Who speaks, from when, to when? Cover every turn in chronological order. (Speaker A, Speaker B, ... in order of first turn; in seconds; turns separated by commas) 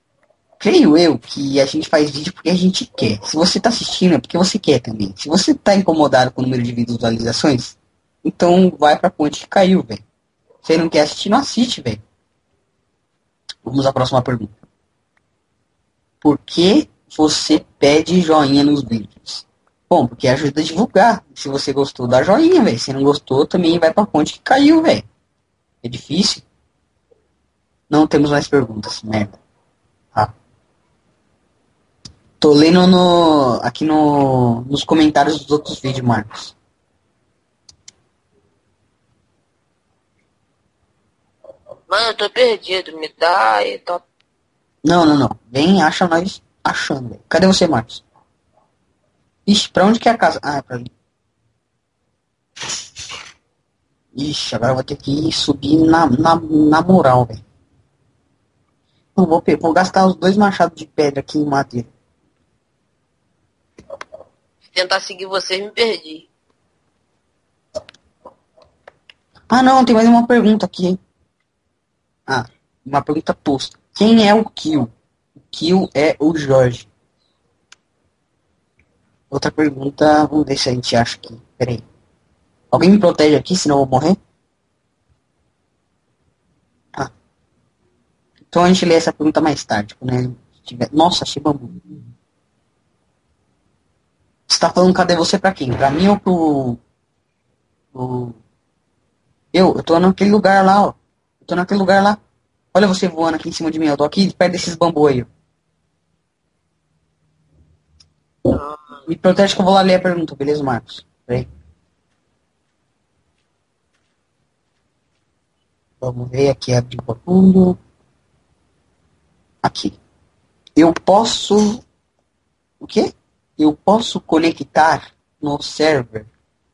Speaker A: 0.6-10.0, Speaker A: 10.6-12.0, Speaker A: 13.6-14.5, Speaker A: 16.2-25.0, Speaker A: 25.8-26.4, Speaker A: 27.9-29.4, Speaker A: 32.4-36.5, Speaker B: 41.9-44.0, Speaker A: 44.8-48.0, Speaker A: 49.5-50.9, Speaker A: 54.1-57.4, Speaker A: 59.1-61.9, Speaker B: 64.6-66.3, Speaker A: 69.5-71.0, Speaker A: 72.3-76.9, Speaker A: 79.3-81.8, Speaker A: 82.7-84.2, Speaker A: 88.5-91.8, Speaker A: 94.5-96.8, Speaker A: 97.9-98.4, Speaker A: 99.5-102.2, Speaker A: 102.7-105.3, Speaker B: 108.5-108.8, Speaker A: 109.1-111.5, Speaker A: 116.0-117.8, Speaker A: 119.6-120.0, Speaker A: 120.8-121.8, Speaker A: 122.8-126.3